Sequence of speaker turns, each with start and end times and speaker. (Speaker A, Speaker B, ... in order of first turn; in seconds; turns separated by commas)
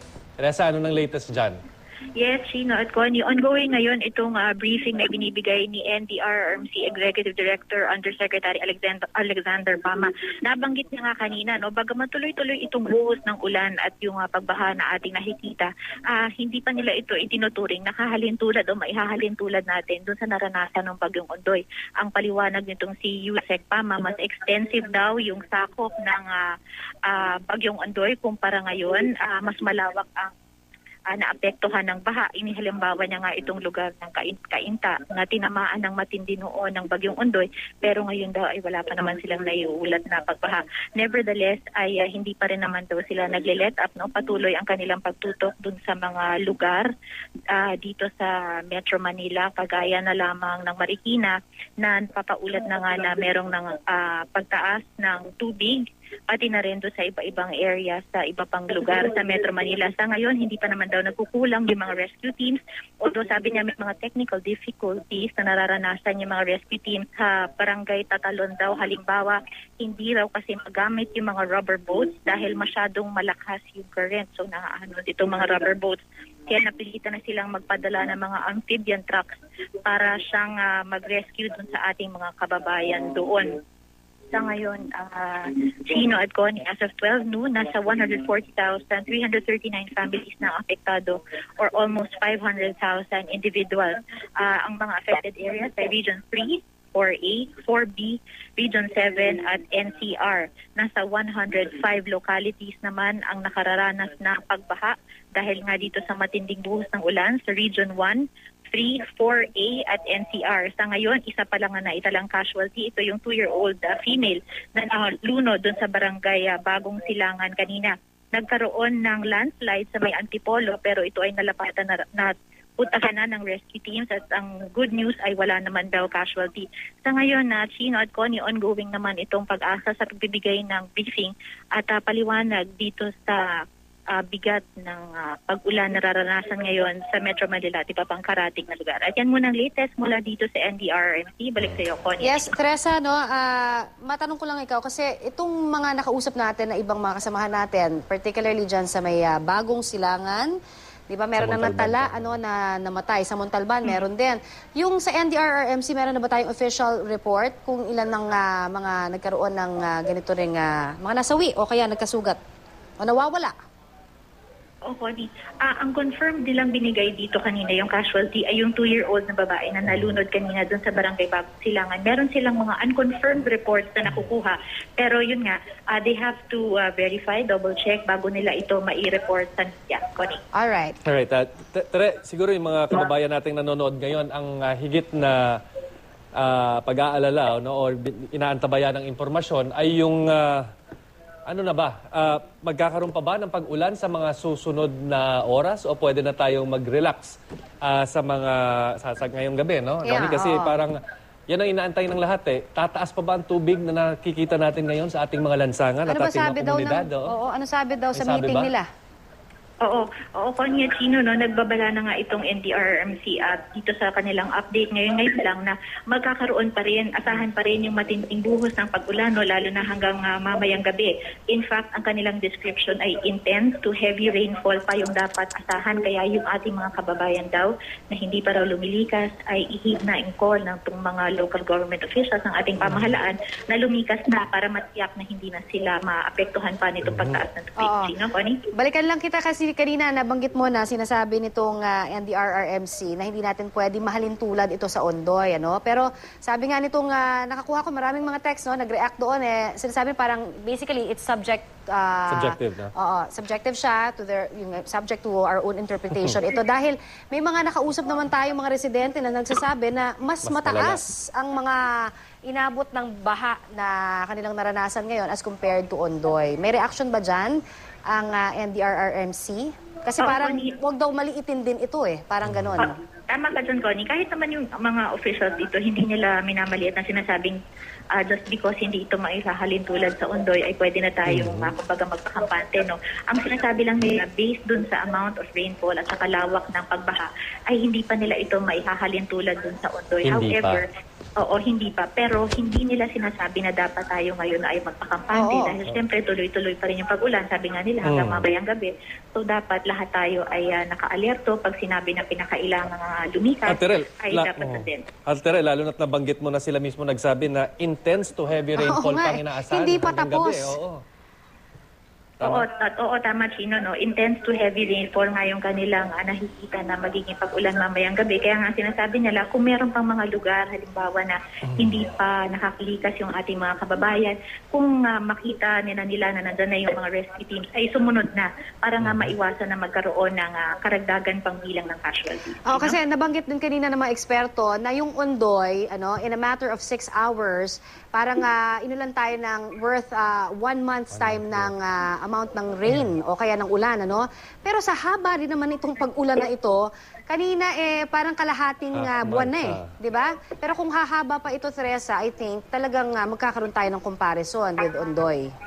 Speaker A: 0.4-1.6, Speaker B: 2.2-26.4, Speaker B: 27.0-30.3, Speaker B: 31.1-46.9, Speaker B: 47.5-83.6, Speaker B: 84.3-133.4, Speaker B: 134.1-142.5, Speaker C: 142.2-150.5, Speaker C: 151.1-162.4, Speaker A: 151.4-152.4, Speaker C: 163.0-163.5, Speaker B: 164.8-180.4, Speaker C: 180.5-180.9, Speaker A: 181.0-185.6, Speaker A: 186.3-190.7, Speaker A: 191.5-207.3, Speaker C: 200.0-200.8, Speaker C: 206.1-208.8, Speaker A: 208.1-208.7, Speaker B: 209.8-238.6, Speaker A: 232.8-233.1, Speaker A: 237.0-237.4, Speaker C: 237.8-238.1, Speaker C: 238.7-261.8, Speaker A: 252.3-252.9, Speaker A: 260.4-261.0, Speaker C: 262.5-267.6, Speaker C: 268.1-272.9, Speaker B: 270.2-270.7, Speaker A: 272.4-272.8, Speaker B: 272.8-277.6, Speaker B: 278.1-290.8, Speaker A: 281.3-281.7, Speaker A: 290.2-290.8, Speaker B: 291.4-305.1, Speaker C: 295.3-295.8, Speaker A: 298.0-298.5, Speaker A: 303.7-311.0, Speaker C: 308.8-310.8, Speaker A: 312.4-312.6, Speaker B: 312.4-333.0, Speaker A: 321.6-322.0, Speaker A: 329.0-329.3, Speaker C: 332.6-355.5, Speaker A: 341.1-341.7, Speaker A: 348.9-349.9